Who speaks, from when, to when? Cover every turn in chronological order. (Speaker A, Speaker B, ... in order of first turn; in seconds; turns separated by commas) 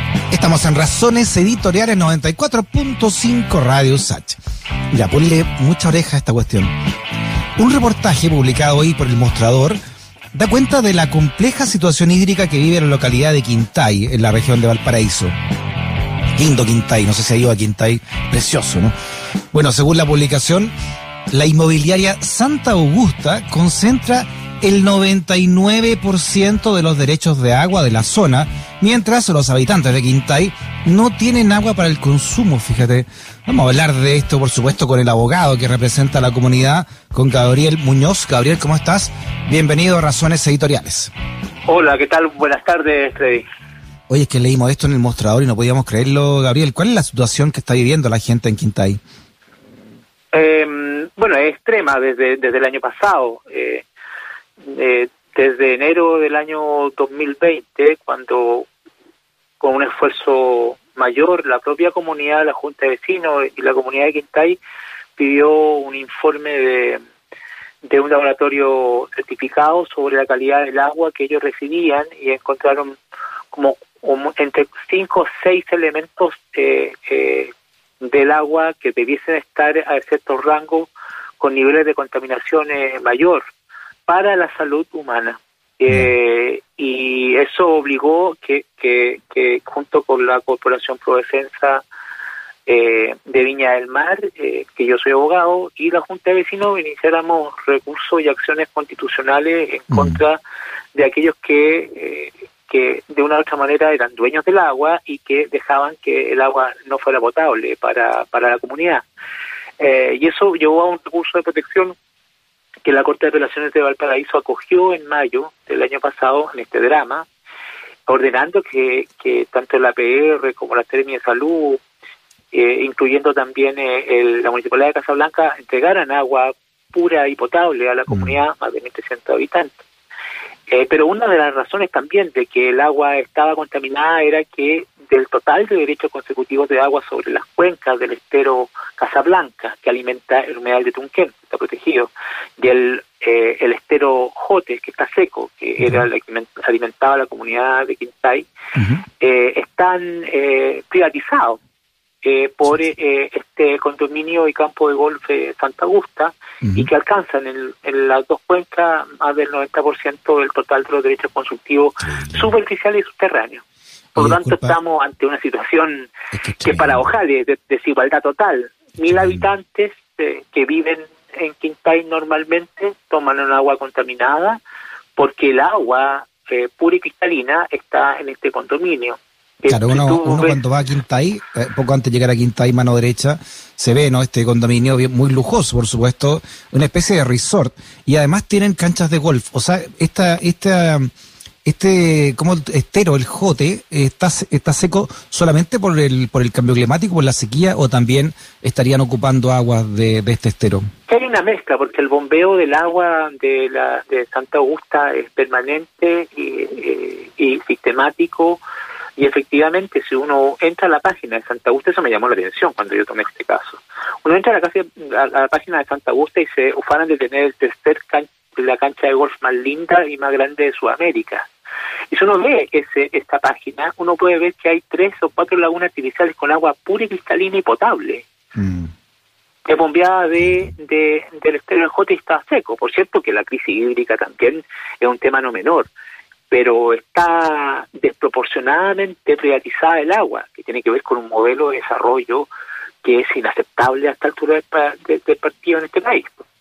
Speaker A: 0.3-4.4, Speaker A: 4.9-6.7, Speaker A: 7.6-9.8, Speaker A: 10.3-15.3, Speaker A: 16.4-18.9, Speaker A: 19.5-20.7, Speaker A: 21.3-41.1, Speaker B: 41.7-43.5, Speaker A: 44.1-49.0, Speaker B: 50.3-53.9, Speaker B: 54.6-58.7, Speaker B: 59.6-64.6, Speaker B: 65.2-67.0, Speaker B: 67.8-73.0, Speaker B: 73.5-83.4, Speaker B: 84.1-91.8, Speaker B: 92.7-100.4, Speaker B: 100.9-109.0, Speaker B: 109.8-111.9, Speaker B: 112.8-117.3, Speaker B: 118.1-121.8, Speaker B: 122.5-129.8, Speaker B: 130.7-148.5, Speaker B: 149.2-151.6, Speaker B: 152.2-163.6, Speaker A: 164.2-164.8, Speaker B: 164.2-166.1, Speaker A: 166.4-167.0, Speaker B: 166.6-174.6, Speaker B: 175.2-180.6, Speaker A: 179.7-191.1, Speaker A: 191.7-200.8, Speaker B: 201.1-208.6, Speaker B: 209.2-221.5, Speaker B: 222.1-228.3, Speaker A: 228.6-228.9, Speaker B: 229.7-235.9, Speaker B: 236.5-242.5, Speaker B: 243.0-246.4